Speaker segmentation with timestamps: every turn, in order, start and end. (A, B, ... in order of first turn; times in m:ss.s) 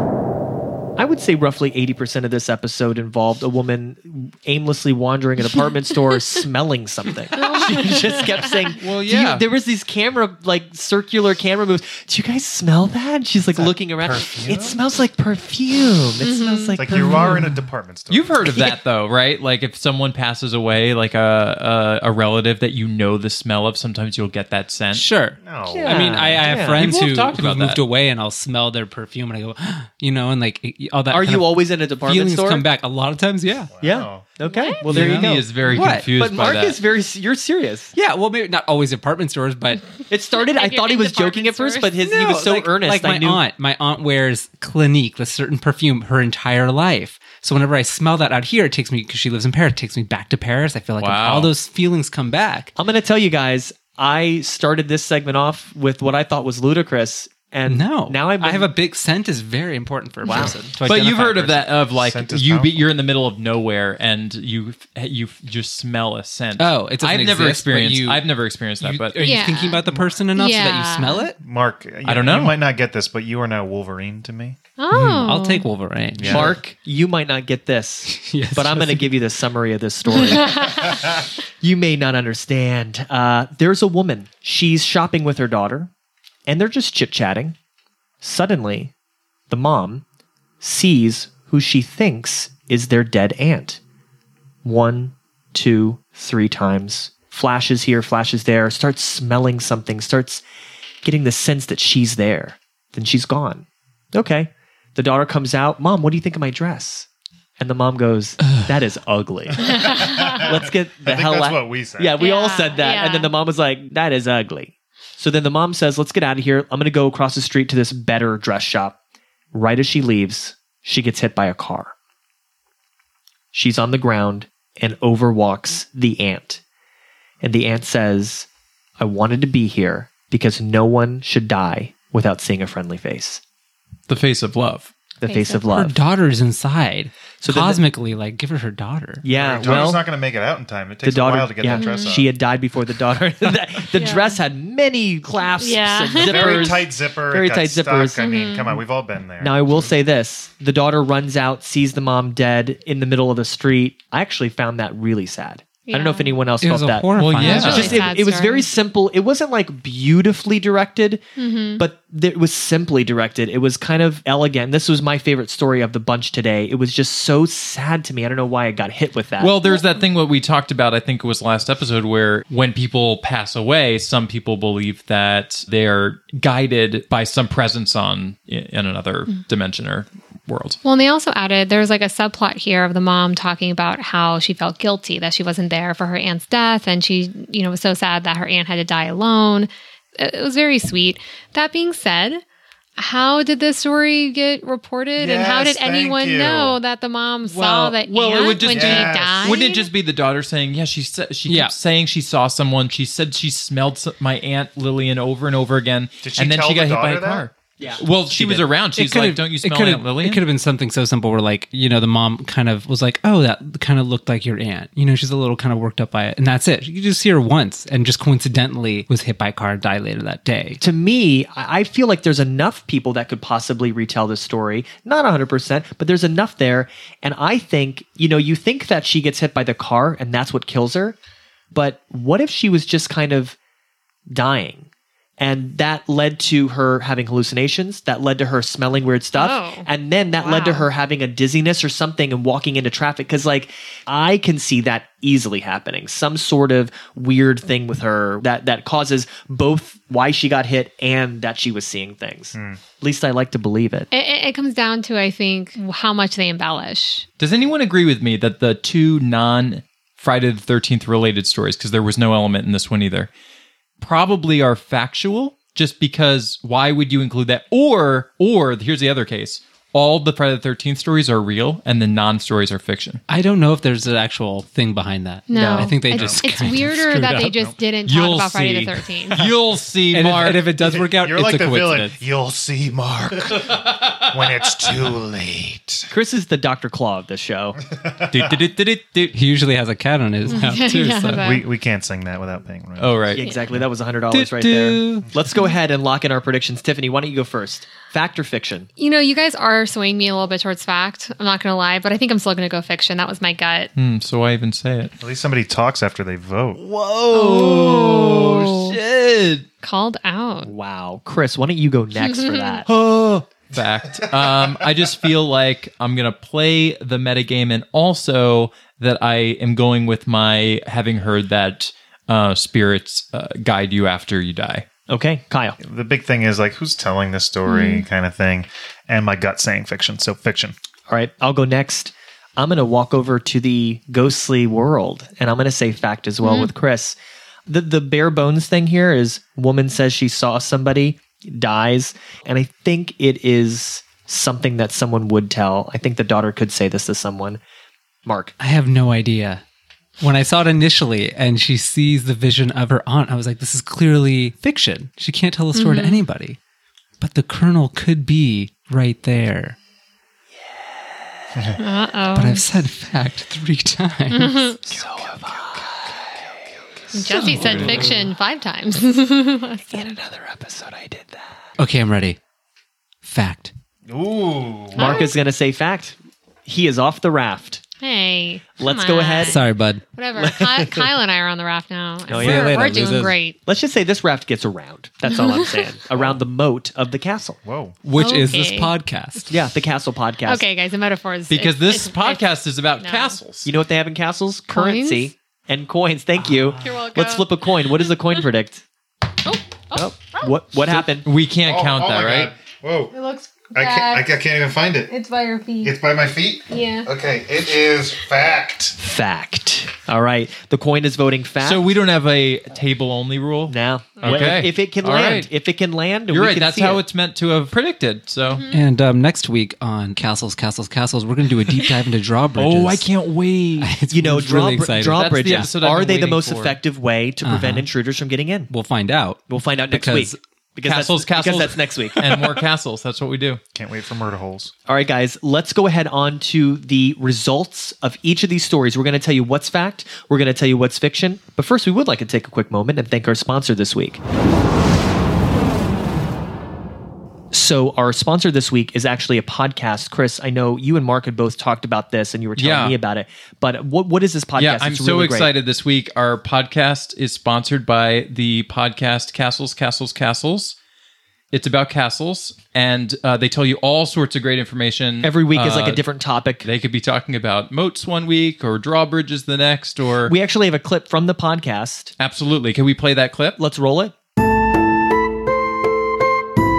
0:01.0-0:17.5 A
0:07.4-0:08.5 B
0:08.8-0:09.4 C
0:13.5-0:14.8 D
0:16.2-0:16.8 B
0:16.8-0:18.5 D
0:18.1-0:25.1 C
0:24.9-0:33.7 E
0:25.4-0:26.1 D
0:25.8-0:26.9 A
0:26.5-0:27.8 C
0:31.1-0:32.7 A
0:33.7-0:34.3 D
0:33.8-0:37.9 A
0:34.4-0:34.8 B
0:34.9-0:36.1 E
0:34.9-0:36.8 C
0:38.0-0:40.0 E
0:40.1-0:43.4 A
0:40.3-0:42.0 B
0:42.0-0:52.7 E
0:51.0-0:51.5 C
0:52.8-0:58.7 A
0:57.7-1:01.6 E
1:00.2-1:00.7 A
1:00.8-1:09.2 C
1:01.5-1:02.9 D
1:06.6-1:08.3 E
1:08.8-1:11.4 E
1:09.2-1:09.8 B
1:09.9-1:10.2 D
1:10.4-1:11.3 B
1:11.4-1:14.6 D
1:12.0-1:12.6 C
1:14.8-1:15.7 B
1:14.9-1:16.6 E
1:16.2-1:16.6 D
1:16.2-1:25.9 A
1:18.1-1:19.2 E
1:20.3-1:20.9 B
1:26.5-1:27.6 A
1:28.2-1:28.9 A
1:29.5-1:30.0 A
1:30.6-1:33.8 A
1:34.6-1:40.4 A
1:41.0-1:59.0 A
1:48.4-1:48.7 E
1:49.7-1:52.2 D
1:49.8-1:50.4 B
1:52.2-1:53.3 B
1:59.5-2:01.9 A
2:03.5-2:06.6 A
2:07.4-2:08.5 A
2:09.0-2:13.4 A
2:14.1-2:14.9 C
2:15.2-2:16.0 A
2:15.2-2:15.7 B
2:15.7-2:19.3 E
2:17.4-2:17.8 A
2:19.2-2:20.0 A
2:19.3-2:22.3 D
2:21.0-2:28.2 A
2:21.7-2:22.2 B
2:23.9-2:24.4 B
2:25.6-2:26.8 B
2:26.2-2:30.0 D
2:28.2-2:28.8 B
2:29.4-2:41.2 A
2:35.9-2:36.4 B
2:36.6-2:38.1 E
2:37.2-2:38.0 C
2:37.4-2:38.7 B
2:41.4-2:41.8 B
2:41.8-2:49.6 A
2:49.4-3:00.8 C
3:00.8-3:12.4 B
3:13.0-3:19.9 B
3:15.2-3:16.8 D
3:17.5-3:18.0 E
3:17.9-3:30.4 C
3:18.6-3:19.7 D
3:21.5-3:21.7 E
3:26.2-3:27.5 D
3:27.8-3:28.1 A
3:28.3-3:40.8 E
3:40.8-3:51.2 A
3:51.7-3:53.6 A
3:54.3-4:14.1 A
3:59.4-3:59.9 B
4:00.4-4:00.9 B
4:12.5-4:12.8 D
4:14.1-4:17.3 B
4:17.4-4:23.3 C
4:24.0-4:33.2 C
4:33.3-4:37.6 E
4:35.5-4:39.4 B
4:36.1-4:36.4 D
4:38.1-4:40.7 C
4:40.1-4:42.2 E
4:40.8-4:46.1 D
4:43.7-4:44.1 C
4:46.1-4:47.8 A
4:47.9-4:48.6 D
4:48.3-4:49.4 C
4:49.3-4:51.5 E
4:50.5-4:51.7 B
4:51.4-4:53.4 D
4:53.0-4:53.4 C
4:53.4-4:58.9 A
4:54.3-4:55.3 E
4:59.0-5:03.9 B
5:04.0-5:05.2 C
5:05.2-5:06.8 D
5:06.8-5:09.7 C
5:07.3-5:09.0 B
5:09.8-5:10.7 B
5:10.6-5:12.9 A
5:12.2-5:12.8 B
5:12.9-5:24.9 C
5:13.7-5:15.2 D
5:25.1-5:25.8 A
5:25.8-5:30.8 D
5:27.7-5:28.0 B
5:31.1-5:47.6 A
5:36.4-5:36.7 B
5:48.2-5:48.6 A
5:48.6-5:49.6 E
5:50.2-5:56.6 E
5:55.8-5:56.2 B
5:57.2-5:59.8 E
6:01.8-6:02.7 B
6:02.4-6:04.8 E
6:04.3-6:04.8 B
6:04.9-6:06.4 A
6:04.9-6:06.5 D
6:07.1-6:10.1 B
6:07.3-6:08.1 A
6:07.4-6:08.0 D
6:09.9-6:11.5 A
6:11.8-6:12.4 E
6:13.2-6:13.7 E
6:14.1-6:15.3 D
6:15.0-6:17.8 A
6:15.0-6:15.3 B
6:18.0-6:23.6 B
6:18.8-6:19.6 A
6:19.4-6:20.0 E
6:20.4-6:21.1 A
6:22.3-6:22.9 A
6:22.3-6:23.4 E
6:23.6-6:27.6 A
6:25.3-6:25.8 B
6:27.6-6:28.0 D
6:28.0-6:29.5 E
6:28.2-6:28.9 B
6:29.5-6:30.6 A
6:30.4-6:32.4 B
6:31.5-6:33.7 C
6:33.0-6:33.4 B
6:33.6-6:38.8 A
6:34.7-6:35.3 B
6:36.8-6:37.6 B
6:39.4-6:40.5 B
6:39.9-6:41.3 A
6:40.9-6:42.5 C
6:41.6-6:43.1 D
6:43.1-6:44.3 B
6:43.7-6:45.1 D
6:45.1-6:46.0 B
6:45.8-6:49.0 D
6:46.7-6:47.1 B
6:49.0-6:51.8 A
6:51.6-6:55.5 C
6:53.7-6:57.0 A
6:56.3-6:58.7 C
6:58.7-7:03.1 E
7:02.6-7:03.9 C
7:03.8-7:05.7 E
7:04.1-7:08.7 A
7:05.2-7:06.8 C
7:07.4-7:07.9 E
7:08.7-7:10.4 E
7:09.5-7:12.5 A
7:10.8-7:13.6 C
7:13.7-7:14.7 D
7:14.9-7:24.2 A
7:27.5-7:35.5 A
7:32.6-7:33.0 C
7:34.6-7:40.8 C
7:41.5-7:46.0 C
7:45.2-7:46.7 A
7:46.6-7:50.3 C
7:50.3-7:52.1 A
7:52.2-7:53.6 C
7:53.6-7:54.1 A